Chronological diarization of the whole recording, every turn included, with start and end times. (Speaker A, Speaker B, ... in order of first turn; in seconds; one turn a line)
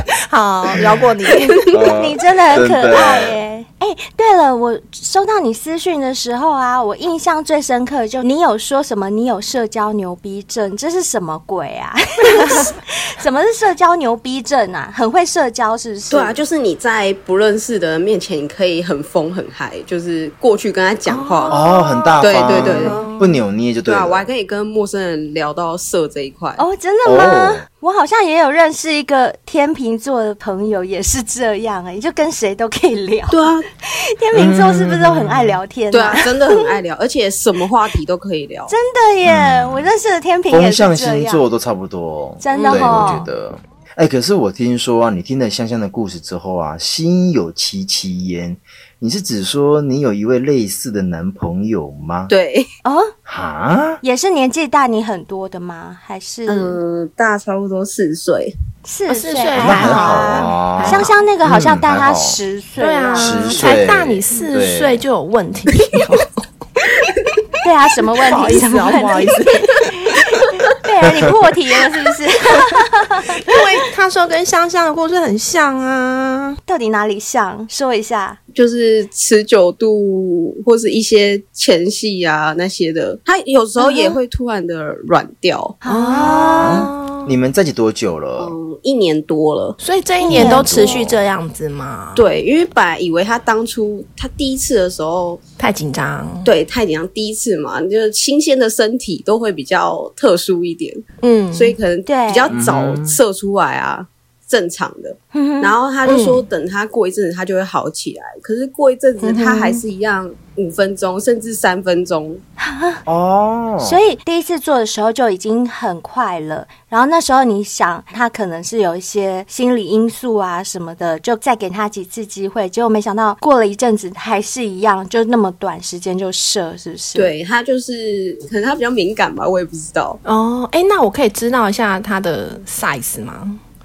Speaker A: 0.3-1.7
Speaker B: 1.3-1.9
Speaker C: 1.7-3.4
Speaker D: 1.9-16.4
Speaker B: 16.1-21.6
Speaker A: 21.1-23.4
Speaker C: 21.5-24.3
Speaker D: 21.7-22.2
Speaker B: 22.2-23.0
Speaker B: 23.9-26.6
Speaker D: 26.6-36.5
Speaker C: 27.1-27.6
Speaker B: 33.3-33.7
Speaker C: 34.3-35.6
Speaker B: 35.9-38.8
Speaker D: 38.7-41.4
Speaker C: 39.2-39.9
Speaker C: 40.5-52.3
Speaker D: 42.4-43.3
Speaker A: 42.5-43.2
Speaker B: 52.3-52.7
Speaker D: 52.8-53.1
Speaker C: 53.3-54.0
Speaker D: 54.0-56.8
Speaker B: 56.5-58.5
Speaker D: 58.9-63.8
Speaker A: 59.1-61.1
Speaker C: 59.6-62.4
Speaker A: 62.8-66.4
Speaker C: 63.2-65.0
Speaker B: 67.0-67.3
Speaker D: 67.6-73.6
Speaker A: 68.3-69.9
Speaker A: 73.4-76.6
Speaker D: 76.7-78.4
Speaker B: 78.5-85.8
Speaker D: 83.8-84.2
Speaker D: 85.8-86.9
Speaker A: 85.8-87.3
Speaker C: 86.2-88.5
Speaker B: 88.4-89.8
Speaker A: 89.8-92.2
Speaker D: 90.2-91.1
Speaker B: 90.3-90.6
Speaker C: 90.3-91.2
Speaker B: 92.2-95.4
Speaker A: 95.6-96.5
Speaker B: 96.5-101.0
Speaker A: 101.2-101.8
Speaker B: 101.5-112.4
Speaker D: 102.0-102.5
Speaker C: 102.5-103.2
Speaker D: 105.3-105.8
Speaker A: 106.0-106.5
Speaker A: 109.2-109.8
Speaker D: 112.6-113.0
Speaker C: 113.1-114.0
Speaker D: 113.8-127.3
Speaker B: 127.2-130.2
Speaker A: 130.2-133.6